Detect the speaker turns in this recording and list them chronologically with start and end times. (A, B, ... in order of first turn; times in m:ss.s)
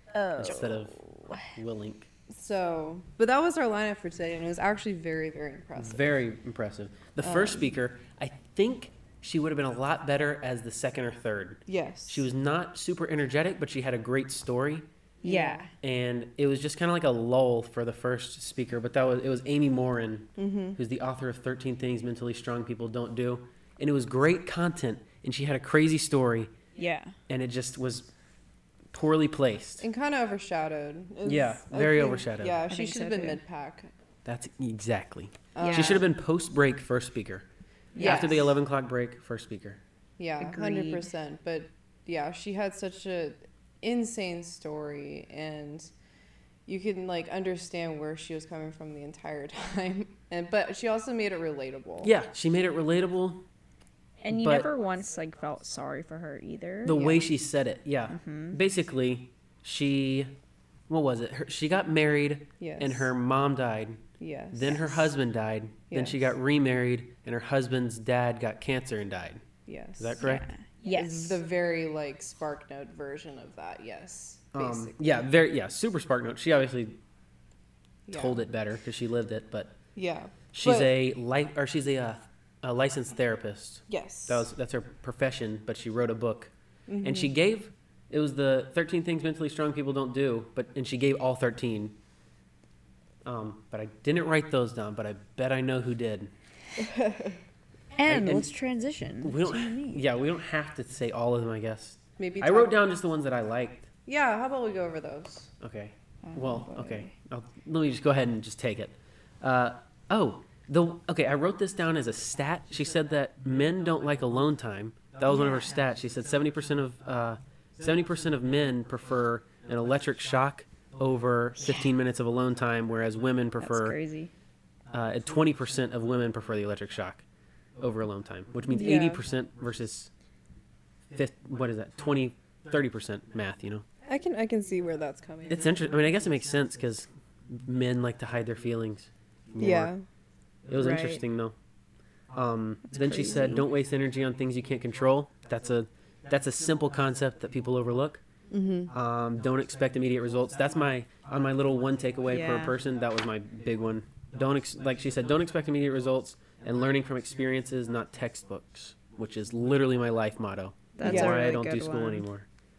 0:00.1-0:01.4 A
0:00.4-0:02.1 B
0:02.3-0:06.1 C
0:05.8-0:14.9 B
0:07.2-0:07.7 C
0:11.6-0:12.3 C
0:15.2-0:15.7 C
0:15.2-0:15.7 A
0:15.8-0:26.5 B
0:20.4-0:20.8 C
0:26.8-0:27.1 A
0:27.3-0:28.1 B
0:28.9-0:29.8 B
0:29.8-0:33.9 C
0:31.2-0:32.6 B
0:32.7-0:33.4 A
0:34.2-0:37.4 B
0:35.5-0:36.1 C
0:35.6-0:36.0 A
0:37.9-0:38.5 A
0:38.0-0:38.5 C
0:38.0-0:39.8 B
0:40.2-0:45.9 C
0:40.4-0:41.1 A
0:46.6-0:52.1 C
0:52.0-0:53.4 B
0:54.2-0:57.1 A
0:54.3-0:54.7 B
0:56.8-1:00.3 B
0:56.9-0:57.2 C
0:58.1-0:58.6 A
1:00.9-1:09.4 B
1:02.6-1:03.1 C
1:04.2-1:05.1 C
1:05.9-1:06.3 C
1:09.6-1:10.3 C
1:10.0-1:10.4 B
1:10.2-1:11.4 A
1:10.9-1:15.3 C
1:14.5-1:17.0 B
1:18.1-1:18.4 C
1:18.1-1:19.8 B
1:19.9-1:20.9 C
1:20.5-1:32.0 B
1:23.9-1:24.5 C
1:26.9-1:27.3 C
1:33.2-1:36.3 B
1:36.8-1:37.4 C
1:38.0-1:40.0 A
1:38.0-1:38.5 B
1:39.2-1:43.9 B
1:42.2-1:42.8 C
1:44.0-1:45.5 C
1:45.6-2:04.0 B
1:46.2-1:47.1 A
1:55.3-1:55.8 A
2:03.6-2:04.3 A
2:04.9-2:07.2 B
2:07.8-2:10.1 B
2:08.7-2:09.2 C
2:08.7-2:09.0 A
2:11.1-2:13.8 B
2:14.0-2:15.7 C
2:15.5-2:19.9 B
2:19.6-2:20.0 C
2:20.7-2:21.5 B
2:20.7-2:21.2 A
2:22.3-2:28.2 B
2:22.9-2:23.6 A
2:28.5-2:28.9 C
2:28.9-2:42.5 B
2:32.3-2:32.7 A
2:41.0-2:42.2 A
2:41.0-2:41.4 C